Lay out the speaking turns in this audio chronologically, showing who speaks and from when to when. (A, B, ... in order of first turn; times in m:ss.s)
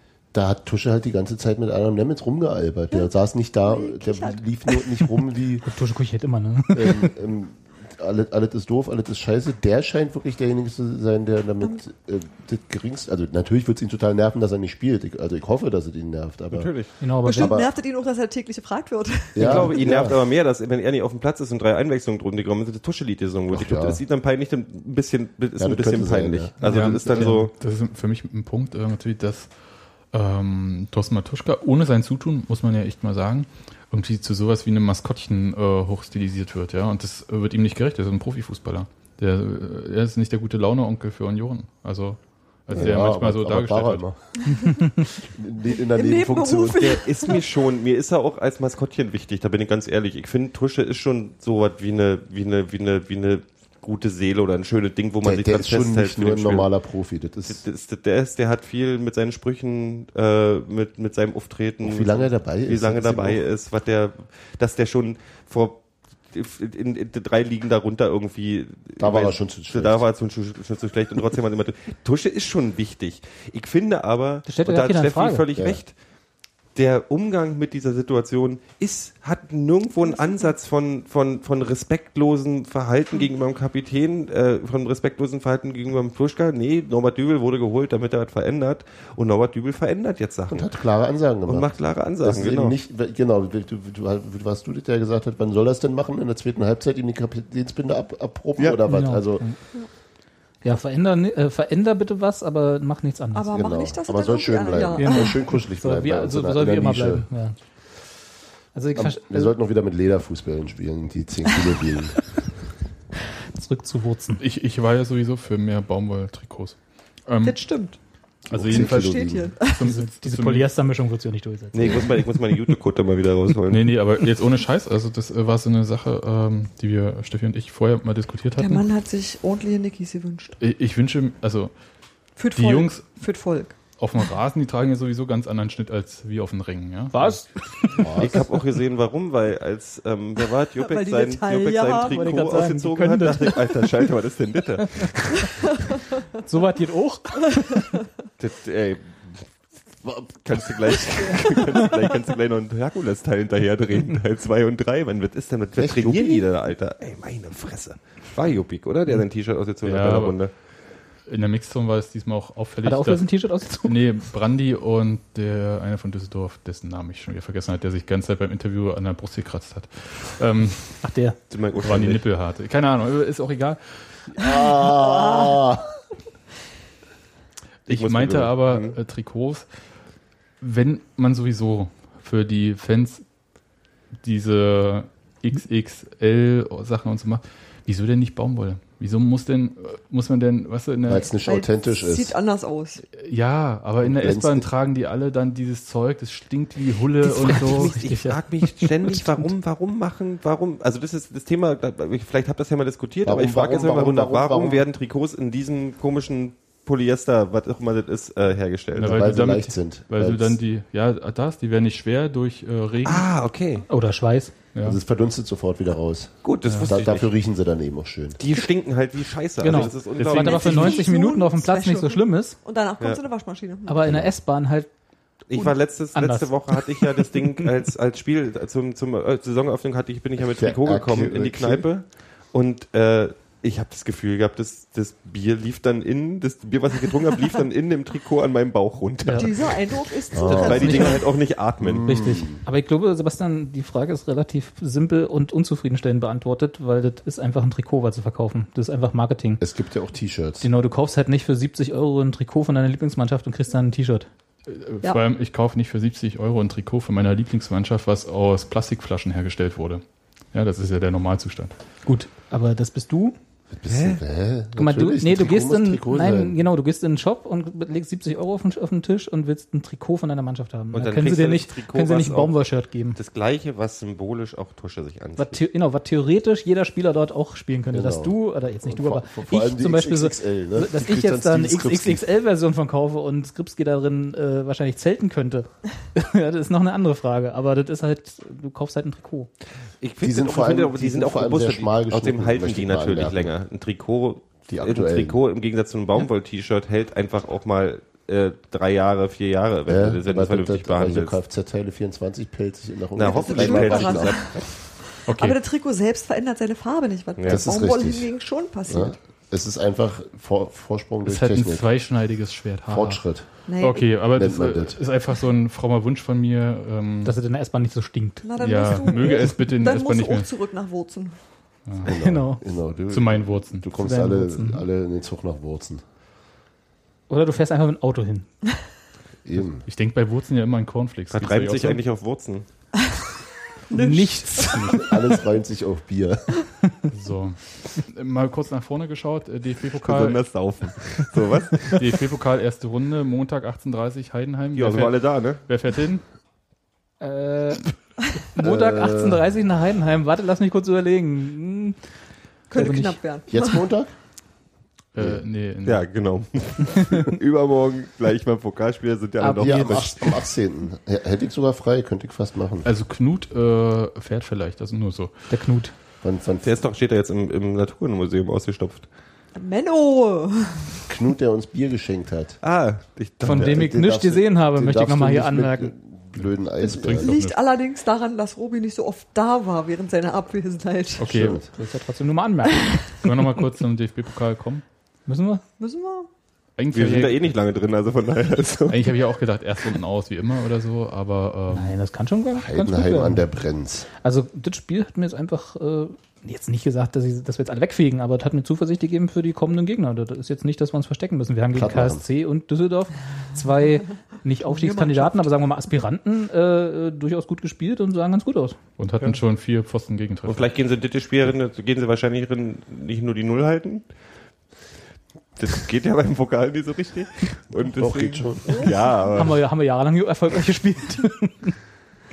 0:00.3-0:05.6 A
0:02.9-0:05.1 B
0:05.6-0:07.1 C
0:06.7-0:16.7 A
0:16.5-0:16.9 D
0:17.0-0:17.6 C
0:17.2-0:19.6 B
0:17.3-0:17.7 A
0:19.3-0:20.2 A
0:19.4-0:27.5 D
0:23.5-0:24.0 A
0:25.6-0:27.3 A
0:26.6-0:44.2 E
0:42.7-0:47.0 A
0:46.0-0:47.3 B
0:46.7-0:56.7 D
0:55.2-0:57.6 A
0:57.4-1:32.8 D
1:01.8-1:03.4 A
1:09.0-1:10.0 A
1:14.4-1:15.4 C
1:15.5-1:15.8 A
1:20.1-1:20.4 B
1:30.5-1:39.5 A
1:38.6-1:39.6 C
1:40.6-1:43.5 C
1:43.3-1:45.5 B
1:43.5-1:47.3 A
1:45.0-1:47.6 C
1:48.7-1:49.6 C
1:48.9-1:52.5 A
1:53.6-1:54.4 C
1:54.4-2:00.8 E
1:57.4-1:58.0 B
1:58.5-1:59.6 A
1:58.7-1:59.8 B
1:59.8-2:02.3 C
2:01.7-2:04.1 D
2:03.7-2:08.8 E
2:08.5-2:10.6 B
2:10.6-2:13.1 E
2:12.4-2:13.8 B
2:14.0-2:18.0 E
2:17.1-2:18.0 C
2:18.0-2:18.4 A
2:18.2-2:25.5 D
2:20.8-2:22.2 B
2:22.1-2:23.9 C
2:26.4-2:27.8 C
2:28.4-2:40.6 D
2:35.7-2:36.4 A
2:39.8-2:51.2 E
2:42.8-2:44.0 C
2:51.0-2:51.4 C
2:51.5-2:52.2 D
2:51.8-2:54.3 E
2:54.4-2:55.9 A
2:55.1-2:55.6 B
2:57.8-3:03.3 E
2:57.9-2:59.0 D
3:04.2-3:11.3 E
3:11.0-3:12.4 A
3:11.4-3:13.0 B
3:13.1-3:18.1 E
3:14.0-3:14.7 A
3:17.4-3:29.3 D
3:17.6-3:19.3 C
3:23.2-3:24.8 A
3:29.0-3:33.4 E
3:29.0-3:30.6 A
3:33.0-3:33.8 D
3:33.9-3:34.5 C
3:34.7-3:35.0 E
3:34.8-3:38.4 A
3:36.4-3:37.3 D
3:36.6-3:37.2 E
3:38.4-3:41.0 D
3:39.6-3:42.6 C
3:39.7-3:41.0 E
3:40.3-3:44.2 B
3:43.9-3:47.1 C
3:44.0-3:44.3 A
3:45.5-4:02.2 D
3:50.4-3:51.9 A
3:59.2-3:59.5 C
3:59.4-4:01.2 B
4:00.3-4:00.9 A
4:00.4-4:09.6 C
4:01.8-4:02.6 A
4:09.6-4:10.7 A
4:10.6-4:14.3 C
4:14.6-4:21.7 E
4:22.0-4:23.4 C
4:23.7-4:26.6 A
4:23.9-4:24.2 D
4:24.7-4:33.2 C
4:30.9-4:35.6 D
4:35.4-4:49.5 C
4:37.9-4:42.2 A
4:50.0-5:01.4 D
4:50.2-4:53.5 A
4:54.7-4:55.4 A
4:59.9-5:04.7 A
5:03.1-5:05.0 D
5:03.2-5:09.1 B
5:05.2-5:05.6 E
5:07.4-5:07.7 D
5:07.4-5:12.2 A
5:11.2-5:17.4 E
5:12.9-5:15.0 A
5:13.6-5:14.2 B
5:17.2-5:19.1 C
5:18.4-5:21.4 B
5:18.6-5:20.5 E
5:22.0-5:26.0 A
5:22.0-5:22.6 C
5:22.8-5:23.9 E
5:24.0-5:24.8 C
5:27.3-5:28.5 C
5:29.4-5:29.8 A
5:29.5-5:32.0 E
5:31.3-5:32.8 D
5:33.9-5:35.1 B
5:33.9-5:35.0 C
5:35.0-5:36.7 A
5:37.1-5:40.6 E
5:40.0-5:42.1 D
5:41.9-5:46.2 E
5:44.7-5:45.6 D
5:47.2-5:52.0 C
5:48.6-5:49.5 A
5:52.7-5:53.8 B
5:52.7-5:53.2 C
5:53.5-5:54.2 A
5:55.1-5:56.4 E
5:55.2-5:55.4 A
5:55.8-6:00.3 D
5:59.4-6:00.4 C
5:59.6-6:02.9 A
6:02.8-6:05.8 E
6:05.5-6:05.9 C
6:06.2-6:06.8 A
6:06.6-6:09.1 D
6:09.5-6:10.9 B
6:11.1-6:12.6 A
6:12.6-6:13.9 D
6:13.4-6:15.9 C
6:13.4-6:17.3 A
6:16.4-6:17.6 E
6:16.8-6:21.3 B
6:21.2-6:21.7 E
6:21.2-6:21.7 A
6:21.7-6:23.2 C
6:23.2-6:24.8 E
6:25.3-6:25.6 C
6:25.8-6:26.3 B
6:26.8-6:27.5 E
6:26.9-6:29.2 D
6:28.9-6:32.0 E
6:31.7-6:33.5 C
6:32.5-6:34.1 A
6:34.2-6:48.8 C
6:41.7-6:42.2 A
6:44.6-6:45.5 B
6:49.0-6:50.7 E
6:50.4-6:54.1 D
6:55.6-6:59.6 D
6:57.8-6:59.1 A
6:59.3-7:01.7 C